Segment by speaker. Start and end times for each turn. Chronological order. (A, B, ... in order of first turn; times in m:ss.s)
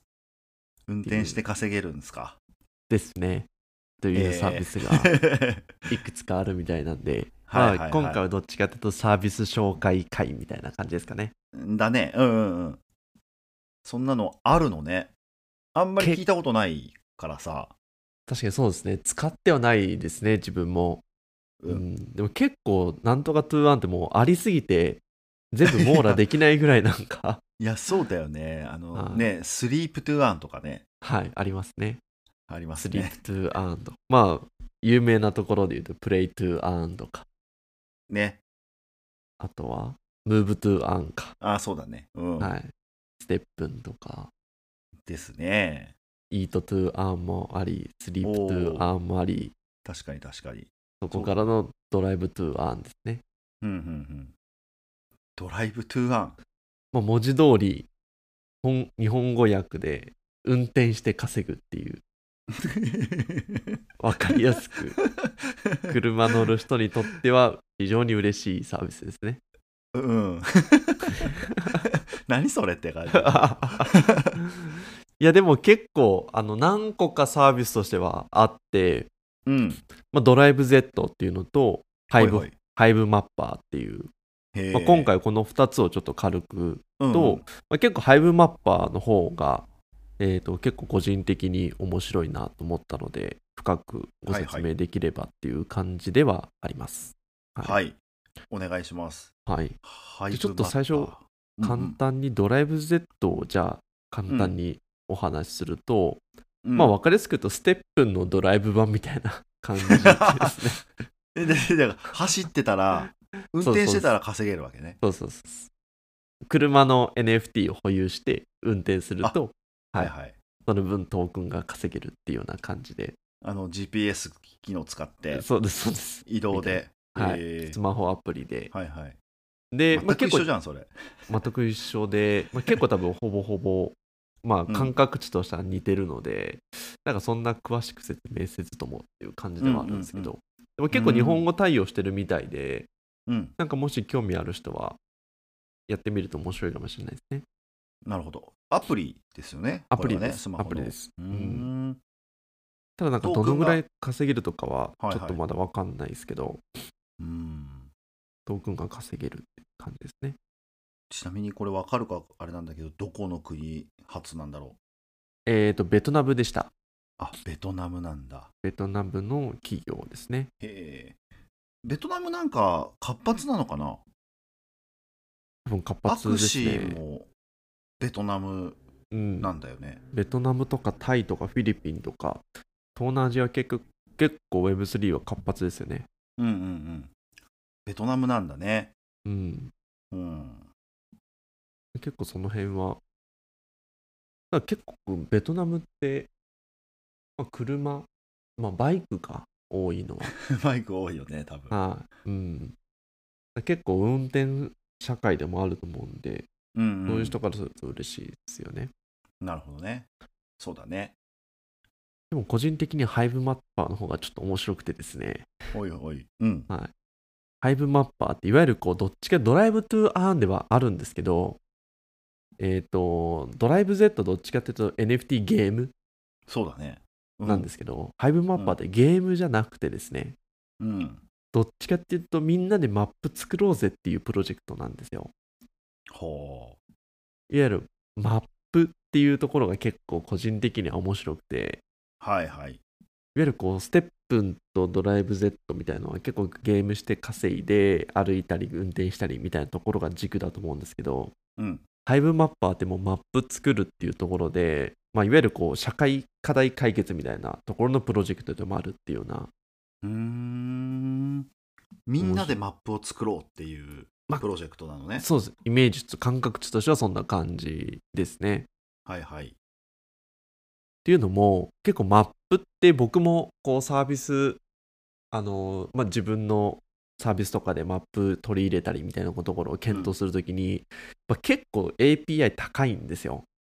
0:00.9-0:02.4 A
0:01.0-0:01.4 B
0:02.9-0:03.5 B
0:04.0-0:05.2 B
0:04.1-0:05.9 A
0:05.9-0:11.3 B
0:07.5-0:08.2 A
0:11.5-0:12.8 A
0:13.8-0:15.1 A
0:15.7-0:17.7 A
0:18.3-0:21.0 B
0:21.7-0:27.4 B
0:25.6-0:26.2 A
0:27.6-0:30.8 A
0:28.9-0:29.3 B
0:31.0-0:32.0 B
0:32.5-0:33.2 A
0:32.8-0:37.2 B
0:38.1-0:38.4 A
0:39.4-0:41.3 B
0:41.4-0:42.5 A
0:42.4-0:44.3 B
0:45.1-0:45.9 A
0:46.3-0:49.5 B
0:48.2-0:48.9 A
0:49.8-0:51.4 A
0:51.0-0:53.2 B
0:53.6-0:54.3 A
0:55.4-0:56.4 A
0:56.9-0:57.9 B
0:58.6-1:02.0 B
1:02.5-1:03.8 A
1:04.0-1:05.0 B
1:05.7-1:06.4 A
1:05.9-1:09.4 B
1:09.9-1:14.3 A
1:13.1-1:19.1 B
1:19.5-1:19.8 A
1:20.1-1:24.1 B
1:22.1-1:22.5 A
1:24.5-1:25.1 A
1:24.7-1:29.6 B
1:27.0-1:27.4 A
1:30.2-1:37.8 B
1:34.3-1:34.7 A
1:37.6-1:38.0 A
1:38.5-1:39.3 A
1:39.4-1:39.8 B
1:39.8-1:42.0 A
1:40.3-1:46.2 B
1:44.3-1:44.6 A
1:46.6-1:47.0 A
1:46.7-1:50.8 B
1:49.8-1:50.5 A
1:51.3-1:55.0 A
1:53.6-1:54.1 B
1:55.0-1:55.7 B
1:56.5-2:00.1 B
1:59.9-2:00.3 A
2:00.7-2:03.2 B
2:03.4-2:05.4 A
2:05.3-2:08.7 B
2:06.2-2:07.8 A
2:08.7-2:09.2 A
2:09.7-2:10.5 B
2:09.9-2:11.4 A
2:11.3-2:22.9 B
2:14.7-2:15.0 A
2:19.6-2:20.3 A
2:20.9-2:21.4 A
2:23.3-2:23.5 A
2:23.6-2:25.0 B
2:25.9-2:27.4 B
2:28.0-2:32.0 A
2:29.9-2:31.7 B
2:33.0-2:36.8 B
2:33.2-2:33.8 A
2:35.0-2:35.4 A
2:37.2-2:37.9 A
2:38.4-2:40.4 B
2:41.1-2:44.8 A
2:45.4-2:46.7 B
2:47.2-2:48.5 A
2:48.6-2:50.5 B
2:50.6-2:51.2 A
2:51.8-2:54.0 A
2:55.6-2:57.0 B
2:56.0-2:57.3 A
2:58.0-2:58.8 A
2:59.1-2:59.5 B
2:59.4-3:00.0 A
3:00.1-3:02.4 B
3:02.9-3:06.1 B
3:06.4-3:07.1 A
3:07.8-3:08.9 A
3:09.2-3:09.7 B
3:10.1-3:10.7 A
3:11.9-3:13.0 B
3:14.5-3:16.3 B
3:17.4-3:20.3 B
3:20.2-3:21.8 A
3:21.7-3:22.7 B
3:23.6-3:26.5 B
3:26.7-3:27.4 A
3:27.1-3:28.9 B
3:29.4-3:30.1 A
3:30.6-3:31.1 A
3:32.3-3:35.5 B
3:35.7-3:36.7 A
3:37.6-3:41.6 B
3:42.6-3:45.9 B
3:46.5-3:47.7 A
3:47.4-3:50.4 B
3:50.8-3:51.2 A
3:51.5-3:55.3 B
3:56.1-3:56.8 A
3:57.5-4:01.8 B
4:02.2-4:02.8 A
4:03.3-4:11.3 B
4:11.6-4:11.8 A
4:12.0-4:19.5 B
4:20.0-4:21.5 A
4:22.1-4:25.2 A
4:22.2-4:22.6 B
4:25.2-4:28.7 B
4:29.1-4:29.5 A
4:31.0-4:34.6 B
4:35.3-4:43.4 B
4:39.9-4:40.1 A